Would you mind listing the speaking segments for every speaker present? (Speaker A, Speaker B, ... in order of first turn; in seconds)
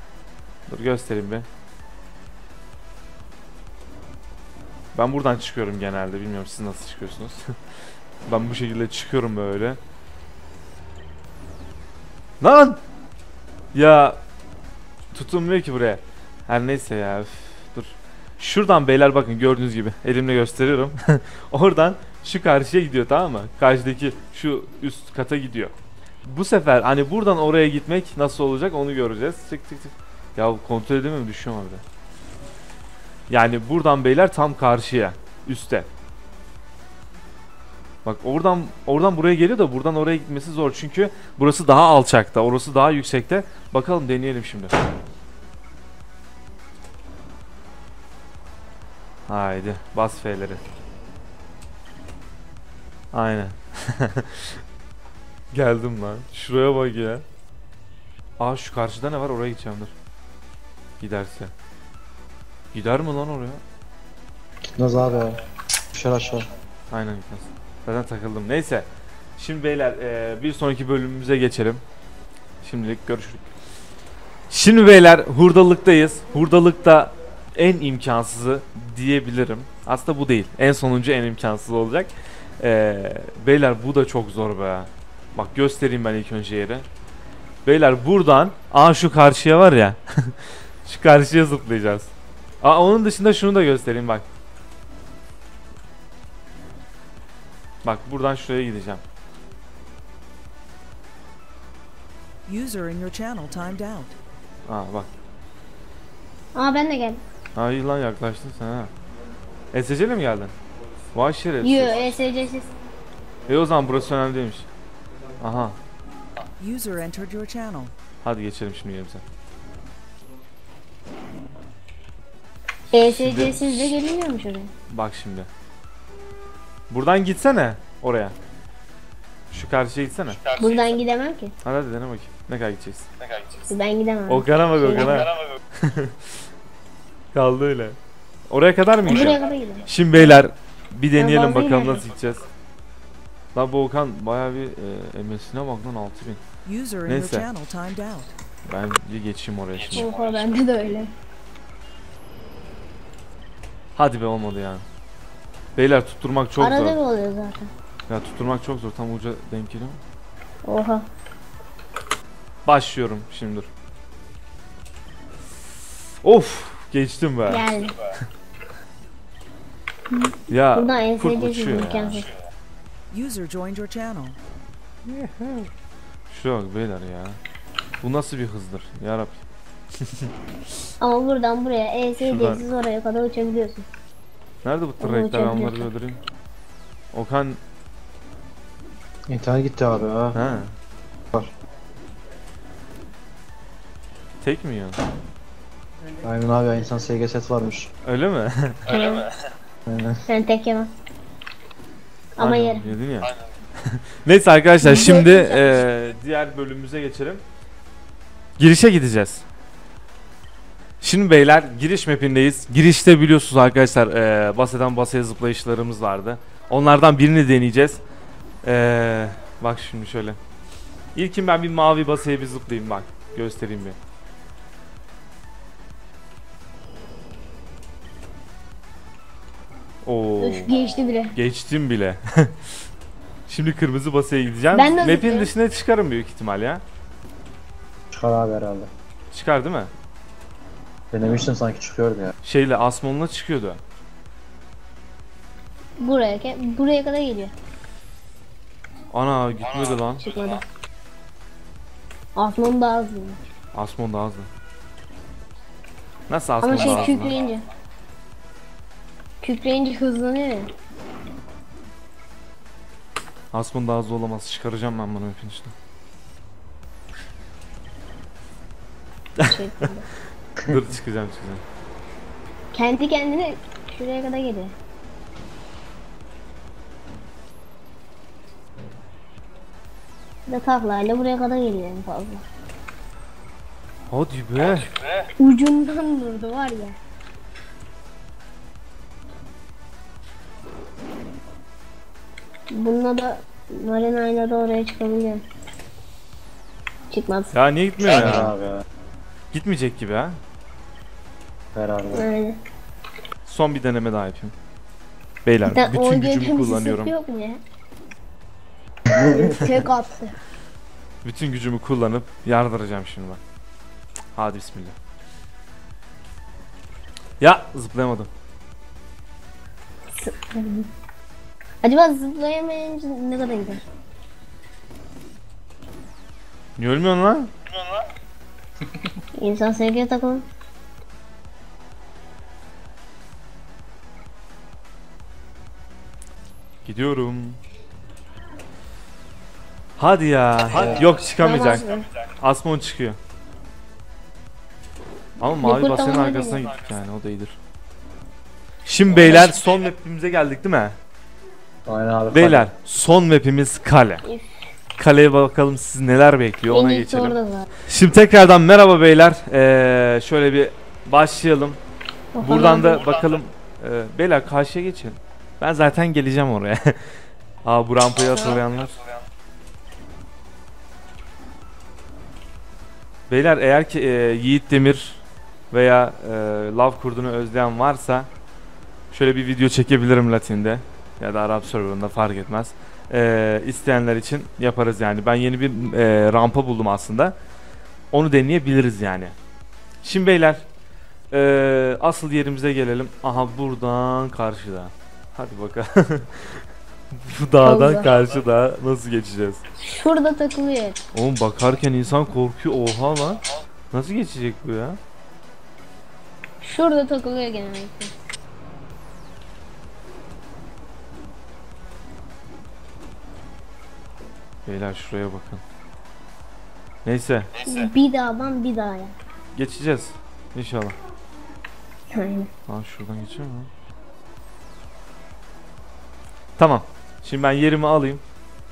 Speaker A: 0.7-1.5, 5.0-7.4, 8.2-9.8, 12.4-12.8, 13.7-14.2, 15.1-25.7, 26.2-31.8, 33.3-35.9, 38.0-44.8, 49.3-50.6, 53.1-54.6, 55.5-57.2, 58.4-59.9, 61.0-61.5, 62.7-63.6, 66.9-68.9, 69.4-71.8, 72.6-73.4, 74.5-86.8, 87.6-94.2, 97.8-99.0, 104.7-105.1, 107.5-108.9, 109.7-110.5, 111.1-112.1, 113.5-114.7, 115.4-115.8, 118.2-119.2, 122.9-123.7, 124.9-125.5, 126.9-128.3, 129.5-130.5, 131.6-133.1, 134.3-136.1, 137.3-137.9, 138.5-142.4, 143.6-146.4, 147.1-147.5, 148.7-150.1, 154.0-154.8, 155.8-157.0, 158.1-160.0, 162.7-163.7, 166.2-167.7, 170.5-172.2, 175.1-175.7, 176.3-177.4, 178.0-179.4, 182.2-182.6, 184.6-186.2, 187.1-187.6, 190.3-190.7, 194.4-195.0, 198.1-198.9, 202.4-203.3, 203.9-207.4, 208.6-209.4, 211.0-218.0, 218.6-220.4, 221.1-224.0, 230.1-230.7, 231.3-232.5, 233.5-236.8, 239.3-239.9, 242.4-243.8, 249.1-250.2, 253.7-254.5, 256.3-257.4, 263.5-265.7, 270.6-271.6, 284.1-285.0, 297.5-298.5, 299.5-300.4, 303.4-304.5, 305.4-307.1, 311.2-313.4, 314.4-314.9, 317.4-318.3, 326.8-327.5, 336.9-337.6, 340.0-343.2, 345.4-347.6, 348.9-351.0, 352.3-354.2, 355.0-357.4, 357.9-361.8, 362.4-367.1, 367.6-369.0, 373.3-378.3, 379.1-387.4, 388.1-389.4, 390.0-390.6, 391.3-396.6, 397.1-399.6, 401.1-405.0, 414.6-415.6, 417.0-417.5, 419.5-421.0, 422.7-423.7, 426.6-428.2
Speaker B: 64.6-65.4, 65.9-66.5, 189.3-190.4, 196.2-197.9, 199.9-200.2, 238.1-238.9, 241.1-242.3, 298.1-298.8, 301.7-302.2, 309.3-309.6, 351.9-352.7
Speaker C: 102.5-104.2, 116.6-117.9, 146.6-148.3, 173.1-174.4
Speaker D: 106.5-107.2, 111.6-112.7, 122.9-124.7, 130.6-131.5, 133.7-135.3, 139.1-139.9, 141.2-142.1, 149.9-151.1, 156.6-157.7, 160.6-161.1, 167.5-167.9, 170.1-172.3, 181.0-183.9, 185.0-185.9, 198.9-199.3, 200.3-200.9, 202.4-202.9, 204.8-205.8, 230.4-231.4, 234.7-235.5, 246.0-247.5, 250.2-250.6, 252.3-253.4, 256.6-257.7, 259.4-260.7, 269.4-270.1, 272.7-274.7, 280.5-282.4, 285.4-286.9, 292.7-295.4, 297.1-297.5, 302.1-302.6, 305.6-307.6, 309.1-310.4, 320.1-320.9, 321.8-323.8, 329.4-330.4, 341.2-342.1, 345.6-346.7, 349.1-349.5, 354.2-354.7, 356.7-357.7, 362.4-363.1, 397.6-398.1, 399.8-401.0, 406.6-408.1, 417.6-419.1, 422.1-422.5